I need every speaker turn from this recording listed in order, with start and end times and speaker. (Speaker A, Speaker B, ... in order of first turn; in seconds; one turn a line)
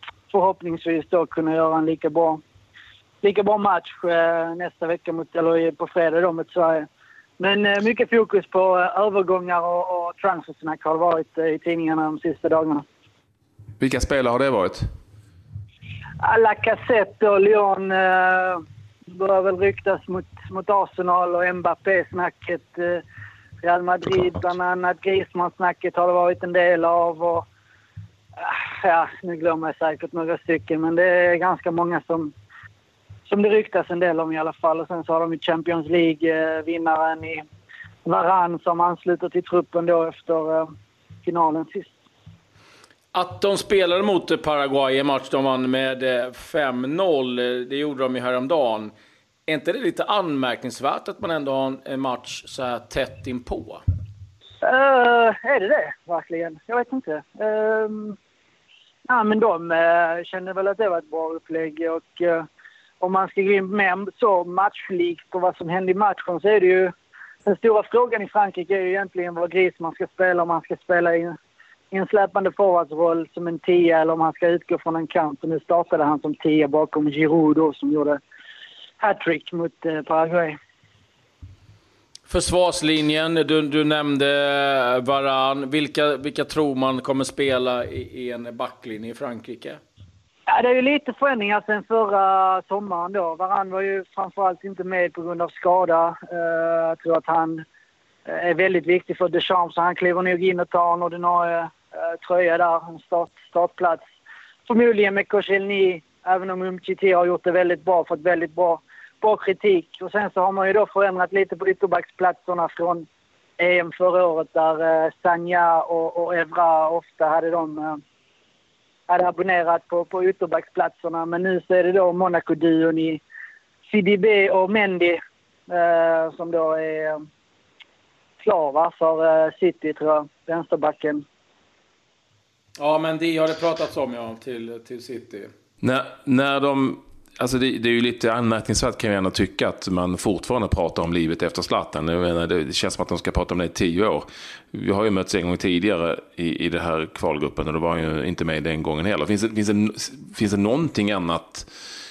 Speaker A: 0.3-2.4
Speaker A: 3.2-6.9
Speaker A: 7.4-12.8
Speaker B: 13.8-14.9
Speaker A: 16.2-18.6
Speaker A: 19.1-23.0
Speaker A: 23.6-27.4
Speaker A: 28.4-32.3
Speaker A: 33.2-37.4
Speaker A: 38.0-40.7
Speaker A: 41.2-42.0
Speaker C: 43.1-48.9
Speaker C: 49.5-53.8
Speaker A: 54.6-58.1
Speaker A: 59.1-62.5
Speaker A: 63.0-66.9
Speaker A: 67.4-71.4
Speaker A: 71.9-78.2
Speaker A: 79.0-80.6
Speaker C: 82.3-89.8
Speaker A: 90.5-97.6
Speaker A: 98.2-104.0
Speaker A: 104.7-113.0
Speaker A: 113.6-118.0
Speaker A: 119.1-123.2
Speaker A: 123.9-127.2
Speaker A: 128.4-131.2
Speaker C: 132.8-135.5
Speaker B: 135.8-151.7